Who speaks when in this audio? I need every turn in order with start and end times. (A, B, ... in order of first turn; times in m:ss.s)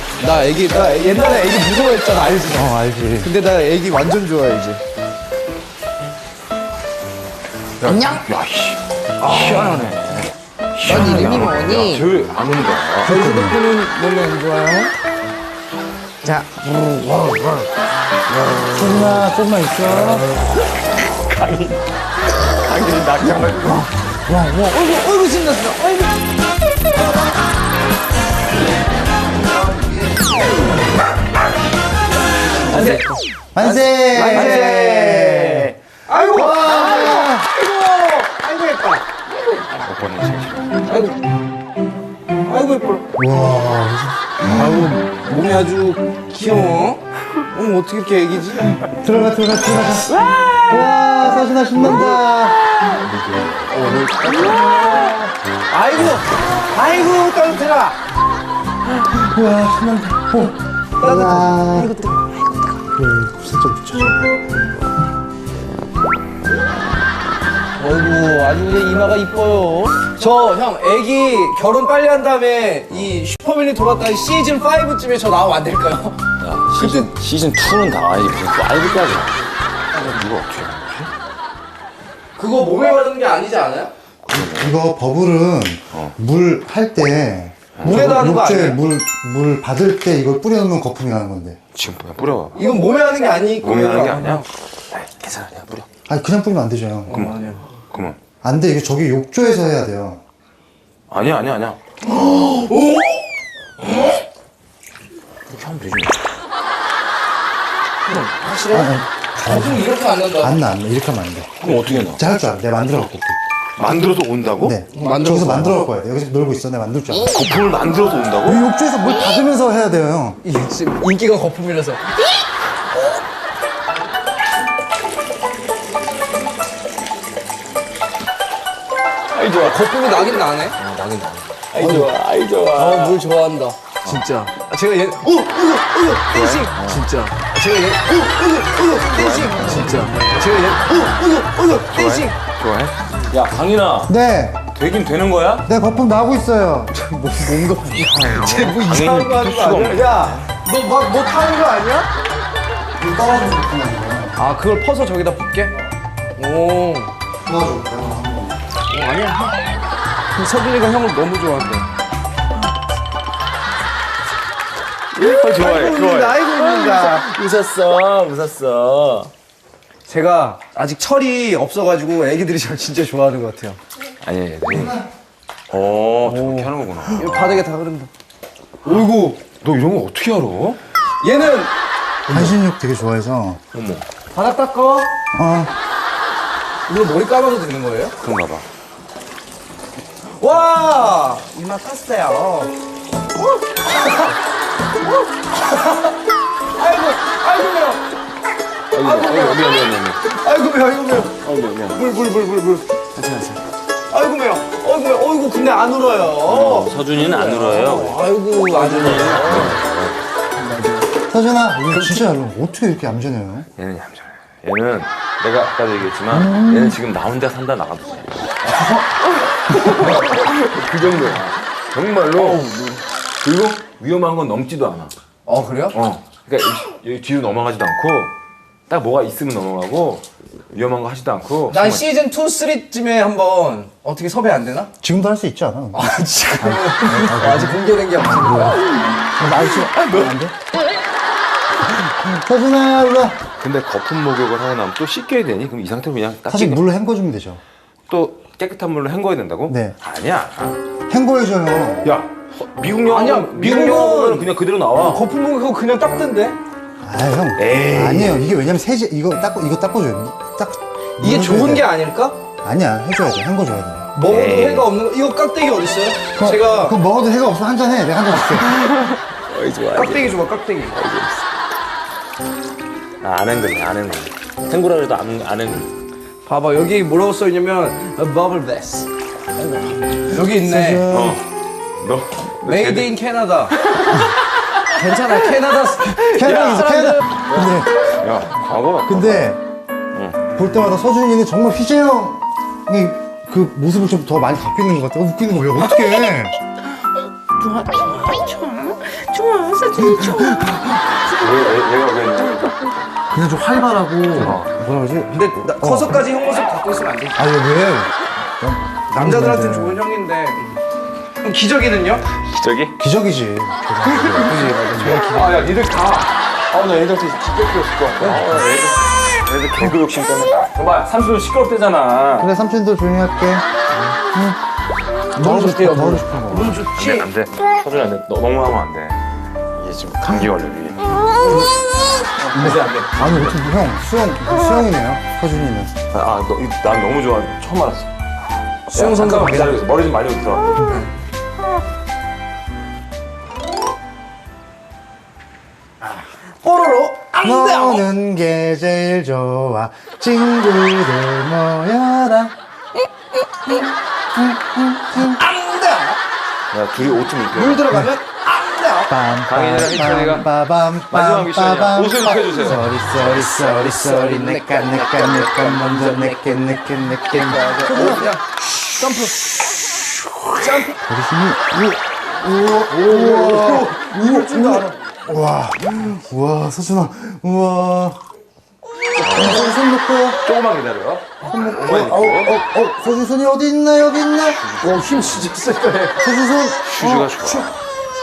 0:00.2-0:04.8 A
0:02.5-0:03.3 B
0:07.8-0:13.2 C
0:07.8-0:08.2 A
0:09.2-0:10.3 A
0:10.8-0:12.1 A
0:11.1-0:11.5 B
0:13.0-0:14.9 A
0:13.1-0:13.6 B
0:16.2-0:17.7 A
0:18.5-0:18.7 A
0:18.7-0:20.3 B
0:21.0-0:21.8 C
0:22.6-0:23.9 C
0:24.3-0:26.2 A
0:32.7-0:33.0 A
0:32.7-0:33.1 C
0:33.6-0:35.8 B
0:33.6-0:39.1 A
0:36.3-0:37.5 B
0:39.7-0:40.7 C
0:40.9-0:41.2 A
0:42.4-0:43.1 A
0:43.2-0:45.1 B
0:44.4-0:48.8 A
0:48.8-0:50.1 B
0:50.3-0:50.6 A
0:50.7-0:52.6 B
0:51.8-0:52.2 A
0:53.7-0:58.0 A
0:59.1-1:02.0 B
1:01.0-1:02.8 A
1:02.9-1:04.4 B
1:07.8-1:16.2 A
1:16.4-1:19.4 C
1:16.8-1:17.1 A
1:20.0-1:21.1 C
1:22.4-1:23.9 A
1:24.3-1:24.7 C
1:24.3-1:31.6 B
1:27.8-1:28.1 C
1:27.8-1:28.8 A
1:31.8-1:32.7 C
1:32.6-1:34.4 A
1:33.6-1:35.9 C
1:36.1-1:37.3 B
1:37.1-1:37.7 A
1:37.1-1:38.2 C
1:38.4-1:40.2 B
1:41.1-1:41.8 C
1:42.1-1:43.2 A
1:45.5-1:46.2 C
1:48.0-1:50.6 A
1:48.7-1:49.9 B
1:50.4-1:53.4 B
1:51.6-1:53.0 C
1:51.7-1:52.2 A
1:53.8-1:54.8 C
1:54.6-1:57.4 B
1:54.9-1:55.9 A
1:57.3-1:58.6 C
1:58.4-2:00.4 B
2:00.4-2:02.2 A
2:09.3-2:13.2 C
2:09.6-2:10.8 A
2:11.8-2:12.1 A
2:12.7-2:22.4 A
2:16.3-2:17.1 C
2:19.1-2:20.1 C
2:21.9-2:24.1 C
2:24.1-2:24.6 B
2:24.7-2:25.7 C
2:25.7-2:28.2 B
2:27.5-2:32.1 A
2:28.0-2:30.5 C
2:33.0-2:34.4 B
2:34.4-2:35.8 A
2:36.4-2:37.1 A
2:37.5-2:38.6 B
2:38.9-2:39.6 A
2:40.3-2:41.9 A
2:45.1-2:49.3 C
2:45.2-2:47.3 A
2:50.1-2:53.8 A
2:54.2-2:55.0 C
2:54.7-2:55.1 B
2:55.7-2:57.7 C
2:56.2-2:58.1 A
2:58.8-2:59.4 A
2:59.6-3:00.8 C
3:01.2-3:01.7 A
3:02.3-3:03.6 B
3:03.7-3:04.0 C
3:04.3-3:05.1 A
3:05.3-3:05.7 B
3:06.9-3:08.2 A
3:08.2-3:08.6 C
3:10.3-3:12.7 A
3:13.8-3:14.4 A
3:15.5-3:16.2 A
3:16.8-3:18.0 A
3:18.9-3:20.2 C
3:19.0-3:19.6 A
3:20.3-3:21.4 A
3:21.4-3:22.0 C
3:22.0-3:23.6 A
3:24.1-3:29.8 A
3:26.4-3:30.2 C
3:30.6-3:31.1 A
3:31.3-3:33.7 B
3:31.9-3:32.3 A
3:33.8-3:38.3 C
3:36.3-3:37.0 B
3:39.7-3:42.7 C
3:42.4-3:43.0 A
3:43.4-3:45.1 C
3:45.5-3:46.0 A
3:45.9-3:48.3 C
3:48.9-3:52.1 C
3:51.7-3:54.9 A
3:55.0-3:57.8 B
3:55.9-3:58.9 A
3:58.4-3:58.8 B
3:59.4-4:00.6 B
4:01.9-4:03.4 B
4:03.6-4:06.8 C
4:06.5-4:07.6 B
4:08.1-4:10.8 C
4:09.7-4:10.0 B
4:11.1-4:12.1 B
4:12.0-4:15.2 C
4:13.1-4:16.6 A
4:17.0-4:21.9 B
4:17.6-4:18.4 C
4:21.2-4:22.4 A
4:22.6-4:24.2 B
4:24.1-4:27.0 A
4:24.3-4:24.9 C
4:26.4-4:28.7 B
4:28.6-4:31.5 C
4:29.9-4:31.0 A
4:33.2-4:35.9 C
4:36.5-4:39.1 A
4:39.7-4:41.1 A
4:40.4-4:41.4 B
4:41.1-4:41.5 C
4:42.0-4:43.2 C
4:42.6-4:43.8 A
4:43.8-4:44.2 C
4:44.9-4:47.4 A
4:46.3-4:48.1 B
4:47.5-4:49.5 C
4:49.1-4:49.6 B
4:50.1-4:50.4 C
4:50.6-4:56.6 B
4:57.6-5:00.8 A
5:00.0-5:00.9 B
5:01.2-5:03.2 C
5:03.3-5:06.2 B
5:04.4-5:04.7 C
5:05.3-5:07.6 A
5:07.4-5:10.0 B
5:09.1-5:10.8 A
5:11.4-5:12.3 A
5:12.5-5:13.0 C
5:13.0-5:15.6 B
5:14.1-5:22.5 C
5:14.3-5:15.6 A
5:18.2-5:18.6 B
5:22.4-5:23.6 B
5:24.3-5:24.6 B
5:25.4-5:27.3 A
5:25.4-5:26.8 B
5:26.9-5:29.2 C
5:29.8-5:31.0 C
5:30.2-5:30.5 B
5:32.5-5:33.8 C
5:32.5-5:35.9 B
5:32.6-5:32.9 A
5:36.1-5:38.1 C
5:38.9-5:39.8 A
5:38.9-5:40.7 C
5:40.8-5:41.0 B
5:46.6-5:48.0 A
5:47.4-5:52.5 B
5:54.4-5:55.4 B
5:55.2-5:56.2 A
5:56.7-5:57.9 C
5:57.5-5:59.1 A
5:57.8-5:58.2 B
5:59.1-6:08.3 B
5:59.5-6:00.5 C
6:01.1-6:02.9 C
6:02.9-6:08.4 A
6:09.0-6:09.4 A
6:10.6-6:11.0 A
6:11.0-6:18.2 B
6:12.9-6:15.0 A
6:19.2-6:19.7 C
6:19.2-6:20.5 B
6:20.4-6:22.6 C
6:21.5-6:24.6 B
6:24.4-6:25.5 C
6:24.8-6:26.3 A
6:26.2-6:27.4 B
6:26.8-6:27.7 C